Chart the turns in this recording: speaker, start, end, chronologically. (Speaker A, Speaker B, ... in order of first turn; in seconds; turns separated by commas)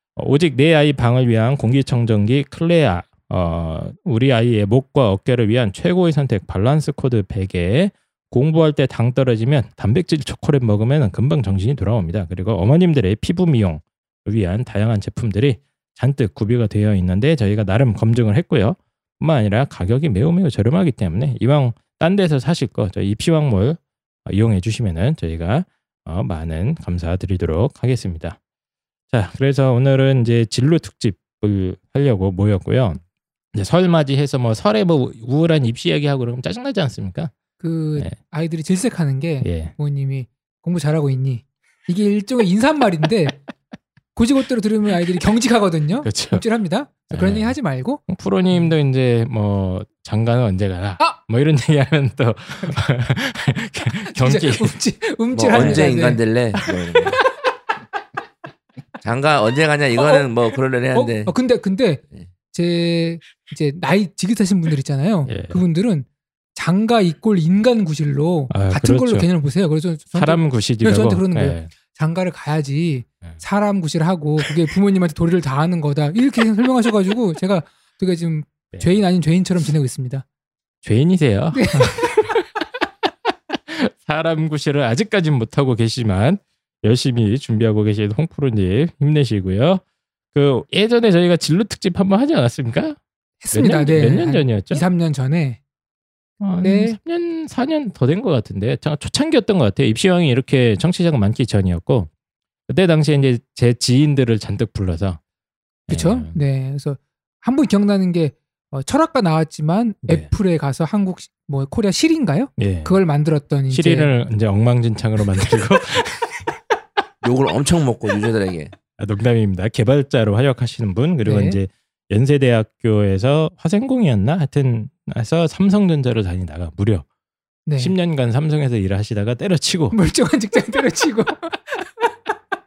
Speaker A: 0.1-28.4, Speaker A: 29.1-33.0, Speaker A: 33.5-37.3, Speaker B: 37.6-43.4, Speaker A: 39.4-39.7, Speaker B: 44.1-48.7, Speaker A: 46.0-46.4, Speaker A: 47.1-47.5, Speaker A: 48.1-54.8, Speaker B: 54.1-56.2, Speaker C: 55.3-57.2, Speaker A: 55.5-55.9, Speaker C: 59.0-61.3, Speaker B: 60.0-60.3, Speaker B: 60.9-80.2, Speaker A: 65.2-65.6, Speaker A: 68.5-69.3, Speaker A: 70.1-71.7, Speaker A: 78.7-79.0, Speaker A: 80.8-82.4, Speaker B: 81.5-82.0, Speaker A: 83.7-93.0, Speaker B: 93.4-95.6, Speaker A: 93.5-94.8, Speaker A: 96.4-102.1, Speaker B: 96.6-96.9, Speaker A: 102.7-105.2, Speaker A: 105.9-106.3, Speaker B: 105.9-114.1, Speaker A: 112.6-113.0, Speaker A: 113.7-116.5, Speaker C: 117.2-118.7, Speaker A: 119.0-127.0, Speaker B: 121.2-121.6, Speaker B: 127.7-128.0, Speaker A: 127.8-130.0, Speaker B: 129.9-131.8